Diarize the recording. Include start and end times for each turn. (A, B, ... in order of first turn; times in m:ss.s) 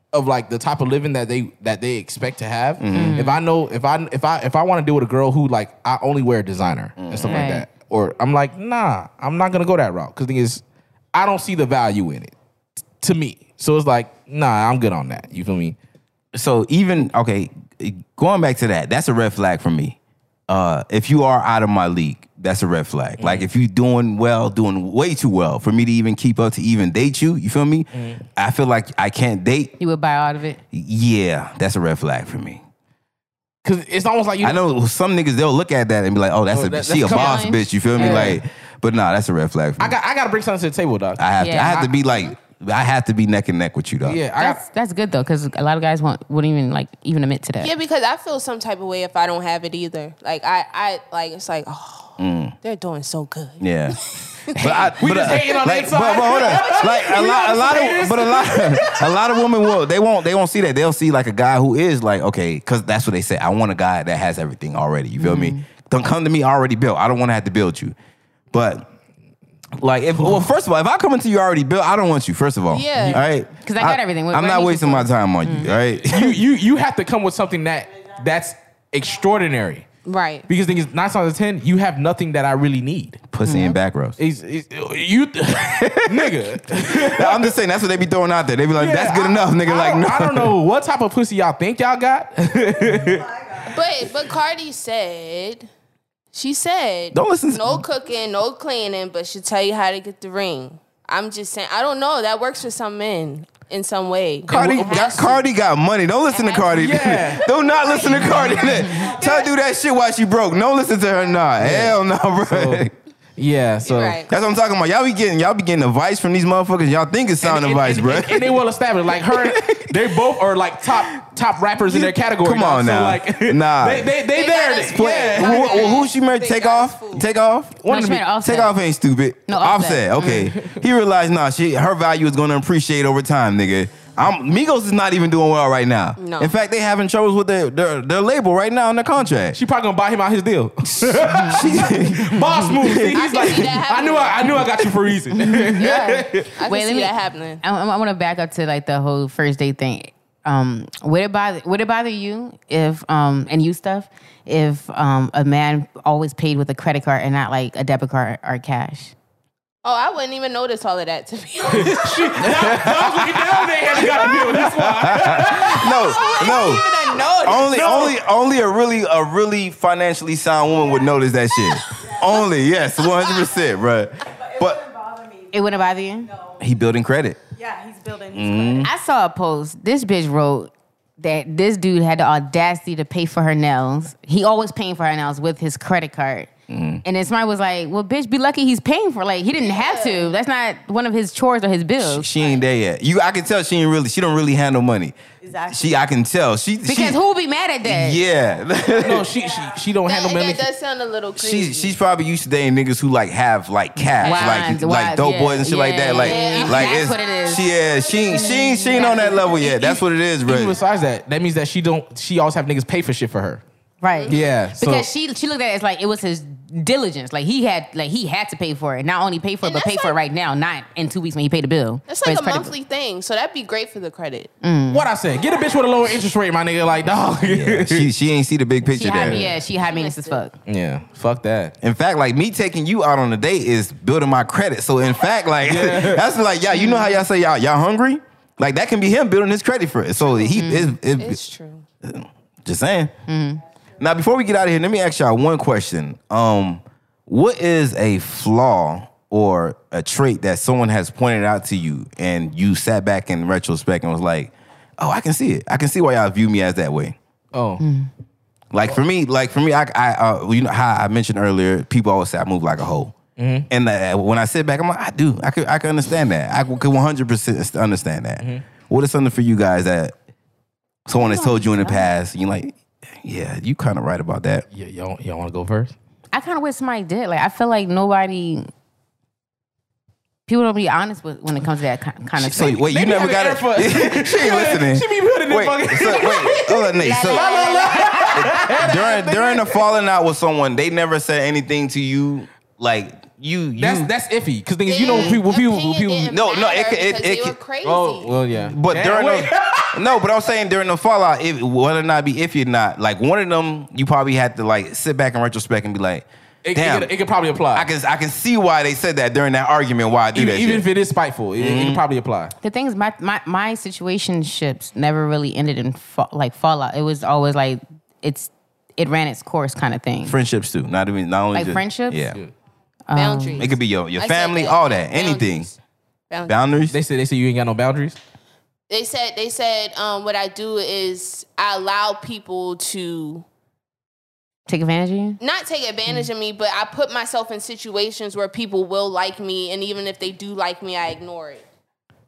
0:00.1-0:10.6 A
0:02.8-0:03.3 B
0:02.9-0:03.4 C
0:07.0-0:07.5 B
0:07.3-0:07.6 C
0:11.1-0:12.3 A
0:13.0-0:15.8 A
0:16.3-0:20.0 B
0:20.5-0:29.7 B
0:23.2-0:23.5 A
0:27.9-0:28.2 A
0:29.8-0:30.6 C
0:30.7-0:32.6 B
0:33.6-0:34.6 A
0:34.4-0:40.0 B
0:36.5-0:38.4 A
0:37.0-0:38.4 C
0:39.8-0:41.9 A
0:41.2-0:44.2 B
0:41.4-0:41.8 C
0:44.0-0:44.6 A
0:44.4-0:47.7 C
0:47.6-0:54.5 D
0:52.2-0:52.5 B
0:53.6-0:54.0 B
0:54.5-0:59.1 A
0:54.6-1:07.9 B
0:56.5-0:58.2 D
1:05.2-1:05.6 C
1:08.5-1:08.9 B
1:09.8-1:16.4 B
1:10.2-1:10.5 A
1:12.7-1:13.2 D
1:13.6-1:15.7 C
1:16.0-1:19.8 A
1:20.0-1:20.5 D
1:20.5-1:23.2 A
1:23.3-1:24.2 B
1:23.4-1:23.8 C
1:24.2-1:27.5 A
1:25.6-1:30.5 B
1:28.7-1:33.4 A
1:33.6-1:35.7 D
1:36.3-1:45.4 D
1:37.1-1:37.8 B
1:44.5-1:52.9 B
1:44.5-1:44.8 A
1:46.3-1:47.1 D
1:46.7-1:47.5 A
1:47.9-1:48.7 D
1:48.3-1:49.1 C
1:51.6-1:52.8 A
1:53.4-1:54.2 A
1:53.8-1:54.3 D
1:54.3-1:58.6 B
1:57.4-2:06.0 A
1:59.2-2:00.0 B
2:01.8-2:04.1 B
2:04.3-2:07.2 D
2:04.8-2:19.6 B
2:07.8-2:08.2 A
2:07.9-2:08.7 C
2:09.5-2:10.3 C
2:10.2-2:10.8 A
2:16.2-2:16.5 D
2:19.5-2:26.5 A
2:21.0-2:23.2 B
2:23.1-2:24.6 D
2:25.4-2:39.1 C
2:26.5-2:27.6 D
2:39.8-2:42.4 D
2:41.7-2:46.0 A
2:42.4-2:46.9 B
2:45.3-2:48.1 D
2:47.4-2:54.8 B
2:47.6-2:48.1 A
2:54.4-2:55.5 E
2:55.5-2:56.3 C
2:56.3-2:56.6 E
2:56.6-2:57.4 B
2:57.5-2:58.9 E
2:58.3-2:58.9 B
2:58.8-3:06.5 C
3:06.7-3:07.0 B
3:07.0-3:12.3 C
3:09.6-3:10.4 D
3:12.0-3:15.2 B
3:15.4-3:16.1 E
3:15.7-3:17.2 B
3:16.8-3:18.2 C
3:17.8-3:19.3 B
3:19.0-3:20.6 A
3:20.0-3:22.0 D
3:21.4-3:30.8 B
3:24.2-3:27.7 C
3:24.2-3:24.6 D
3:26.1-3:27.1 D
3:28.3-3:30.0 C
3:30.4-3:33.6 A
3:34.0-3:42.7 C
3:34.1-3:34.4 D
3:34.3-3:35.1 A
3:39.6-3:40.2 D
3:42.1-3:44.5 D
3:44.6-3:45.1 C
3:44.9-3:48.1 A
3:47.4-3:49.4 B
3:48.9-3:50.6 C
3:49.2-3:49.5 A
3:49.8-3:50.5 D
3:50.6-3:51.7 A
3:51.8-4:01.4 B
3:55.6-3:56.2 A
3:56.7-3:57.2 C
4:00.6-4:01.0 C
4:01.2-4:01.8 D
4:02.0-4:03.1 B
4:03.3-4:03.6 C
4:04.0-4:17.2 B
4:17.5-4:17.8 A
4:17.8-4:18.1 C
4:18.7-4:23.1 B
4:23.4-4:23.7 A
4:23.7-4:30.1 B
4:28.4-4:28.6 A
4:31.1-4:34.6 B
4:31.1-4:32.1 C
4:34.7-4:35.9 A
4:36.3-4:38.7 C
4:40.5-4:43.0 C
4:42.4-4:47.5 B
4:42.8-4:49.7 A
4:47.0-4:48.3 D
4:47.0-4:48.7 C
4:48.3-4:54.1 B
4:53.8-4:56.3 A
4:54.9-4:58.4 D
4:55.1-4:55.4 C
4:56.3-4:57.6 B
4:57.8-5:00.0 A
4:58.6-5:07.1 B
5:06.6-5:07.9 A
5:07.7-5:10.9 B
5:10.3-5:12.5 A
5:11.6-5:12.0 B
5:12.6-5:20.4 C
5:20.2-5:22.4 B
5:21.5-5:22.3 C
5:23.1-5:23.7 C
5:23.1-5:25.8 D
5:23.6-5:25.7 B
5:26.3-5:26.6 D
5:26.5-5:27.0 B
5:26.9-5:28.2 A
5:28.9-5:33.4 D
5:34.7-5:35.4 C
5:35.4-5:41.6 D